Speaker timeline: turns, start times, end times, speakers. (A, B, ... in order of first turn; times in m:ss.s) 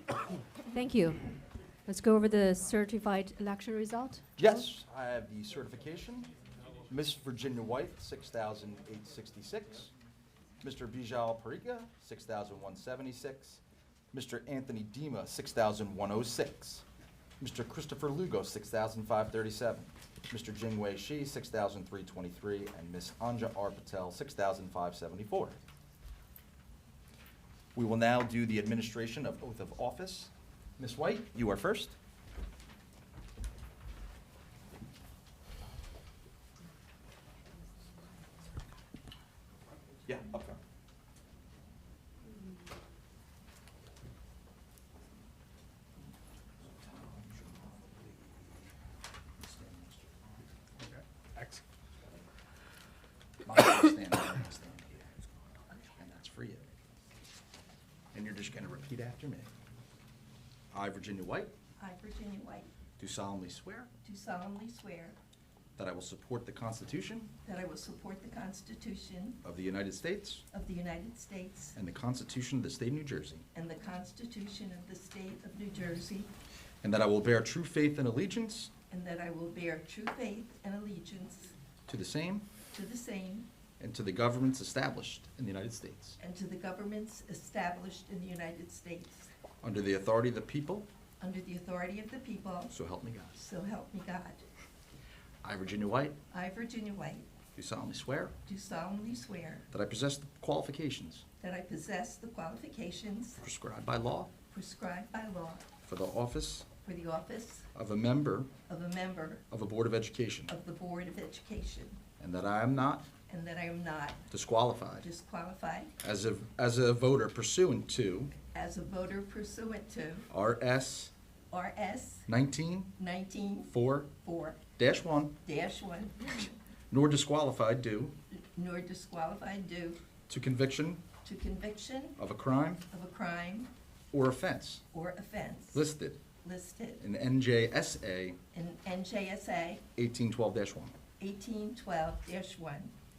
0:00.7-0:01.3 A
0:01.8-0:04.6 A
0:04.4-0:06.3 B
0:06.9-0:09.9 B
0:10.6-0:13.6 B
0:14.1-0:16.8 B
0:17.4-0:25.6 B
0:27.7-0:32.0 B
0:40.0-0:40.6 B
0:46.6-0:48.7 B
0:49.4-0:50.4 B
0:53.4-0:56.8 B
0:58.1-0:59.5 B
1:00.7-1:01.5 B
1:01.8-1:02.7 C
1:03.0-1:03.9 B
1:04.0-1:05.2 C
1:05.8-1:07.3 B
1:07.4-1:09.4 C
1:09.4-1:10.4 B
1:10.5-1:11.8 C
1:11.7-1:13.4 B
1:13.5-1:16.3 C
1:16.8-1:18.7 B
1:18.9-1:21.5 C
1:21.9-1:22.4 B
1:22.7-1:23.5 C
1:23.8-1:26.2 B
1:26.2-1:29.3 C
1:29.6-1:30.9 B
1:31.2-1:32.7 C
1:32.7-1:33.4 B
1:33.4-1:34.4 C
1:35.4-1:36.2 B
1:36.3-1:37.3 C
1:37.5-1:38.3 B
1:38.4-1:39.7 C
1:39.7-1:41.2 B
1:41.4-1:43.4 C
1:43.4-1:44.3 B
1:44.5-1:45.7 C
1:45.8-1:46.7 B
1:46.8-1:47.7 C
1:47.7-1:48.5 B
1:48.7-1:49.4 C
1:49.5-1:50.5 B
1:50.5-1:52.0 C
1:52.2-1:53.1 B
1:53.3-1:54.2 C
1:54.3-1:55.1 B
1:55.0-1:55.9 C
1:56.0-1:58.3 B
1:58.4-2:00.3 C
2:00.3-2:01.1 B
2:01.5-2:02.3 C
2:02.3-2:03.0 B
2:03.0-2:04.6 C
2:03.7-2:04.1 B
2:04.8-2:05.4 B
2:05.4-2:06.5 C
2:06.9-2:08.1 B
2:08.3-2:10.0 C
2:10.3-2:11.0 B
2:11.2-2:12.2 C
2:12.2-2:12.8 B
2:12.9-2:13.7 C
2:14.1-2:14.8 B
2:14.9-2:15.9 C
2:15.7-2:16.2 B
2:16.4-2:17.0 C
2:17.0-2:18.4 B
2:18.5-2:19.9 C
2:20.0-2:21.0 B
2:21.2-2:22.9 C